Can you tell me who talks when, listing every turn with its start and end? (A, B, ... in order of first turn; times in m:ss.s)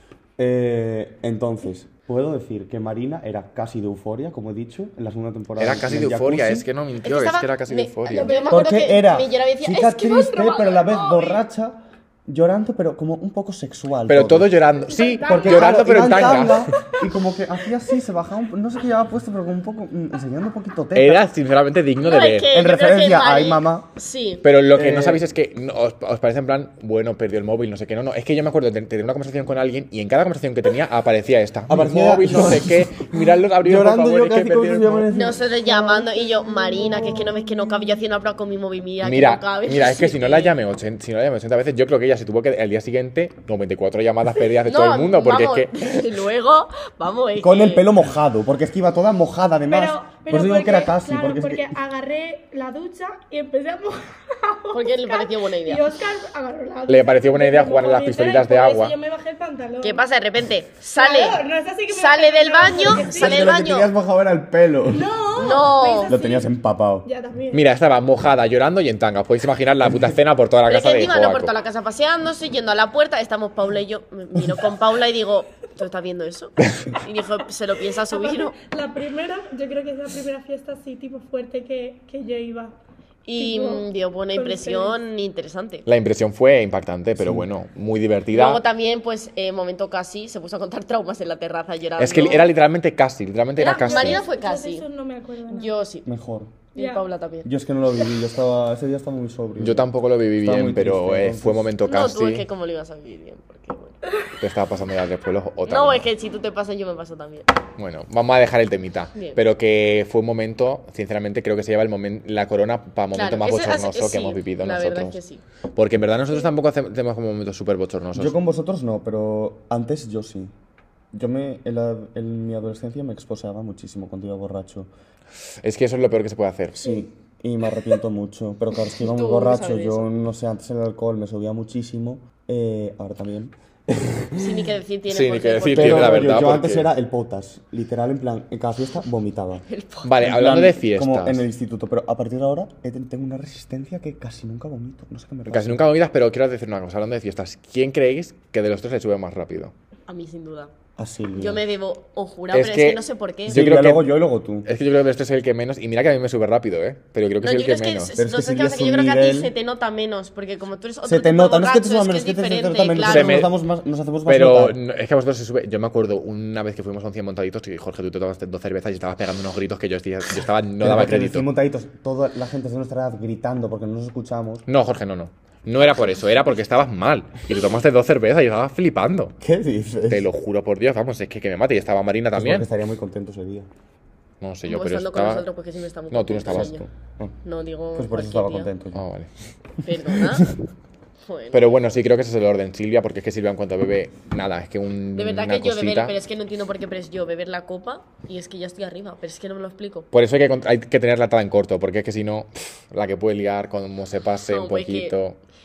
0:00.4-0:06.7 A
0:05.6-0:08.4 B
0:07.0-0:11.4 C
0:08.1-0:08.9 D
0:08.5-0:14.6 A
0:10.3-0:10.7 D
0:14.1-0:16.7 B
0:14.9-0:17.0 D
0:15.2-0:21.3 A
0:20.9-0:22.5 B
0:22.0-0:24.4 C
0:22.5-0:23.9 A
0:24.4-0:35.1 B
0:24.7-0:25.2 A
0:31.7-0:35.8 A
0:35.1-0:40.5 C
0:35.6-0:38.0 D
0:39.0-0:45.7 B
0:44.6-0:47.9 C
0:47.4-0:51.8 A
0:49.7-1:00.1 D
0:54.7-0:55.8 C
0:56.9-0:59.0 B
0:59.8-1:03.9 C
1:01.0-1:03.5 D
1:02.9-1:05.1 A
1:04.9-1:06.5 D
1:05.4-1:06.2 C
1:06.1-1:07.1 A
1:07.0-1:07.6 D
1:07.5-1:11.5 B
1:10.7-1:18.6 C
1:18.1-1:22.8 D
1:23.2-1:25.9 C
1:23.4-1:25.0 D
1:25.9-1:28.6 B
1:27.2-1:27.5 A
1:28.3-1:32.5 C
1:32.0-1:34.2 B
1:33.6-1:34.9 C
1:33.8-1:35.7 D
1:35.5-1:36.1 C
1:36.0-1:36.5 A
1:36.8-1:37.0 D
1:36.8-1:37.5 C
1:37.4-1:41.7 A
1:39.6-1:42.5 B
1:41.8-1:44.0 C
1:44.4-1:46.1 B
1:45.6-1:47.5 C
1:47.8-1:55.2 B
1:53.2-1:55.4 C
1:55.8-1:58.4 B
1:58.2-2:00.5 A
2:01.1-2:04.9 A
2:05.6-2:06.9 B
2:06.8-2:14.6 A
2:09.0-2:10.1 C
2:14.4-2:16.4 C
2:15.1-2:16.9 B
2:15.7-2:19.6 A
2:19.7-2:20.1 C
2:20.0-2:21.5 B
2:20.2-2:25.9 A
2:25.5-2:29.7 B
2:30.1-2:30.7 C
2:31.0-2:31.6 A
2:31.4-2:33.6 C
2:32.5-2:38.2 B
2:33.5-2:34.7 A
2:37.4-2:43.5 C
2:38.2-2:39.5 A
2:41.0-2:44.8 A
2:43.0-2:43.5 B
2:44.3-2:51.5 B
2:50.8-2:54.7 A
2:54.7-2:59.4 B
2:59.4-3:00.3 A
3:00.1-3:02.7 B
3:02.3-3:03.7 A
3:04.4-3:05.5 B
3:04.7-3:06.8 C
3:06.1-3:06.7 B
3:06.5-3:07.4 A
3:07.4-3:08.7 C
3:08.0-3:09.0 A
3:08.9-3:09.3 B
3:09.8-3:10.5 C
3:11.2-3:11.8 C
3:11.5-3:16.1 B
3:15.2-3:20.1 C
3:20.1-3:25.4 B
3:24.5-3:25.2 C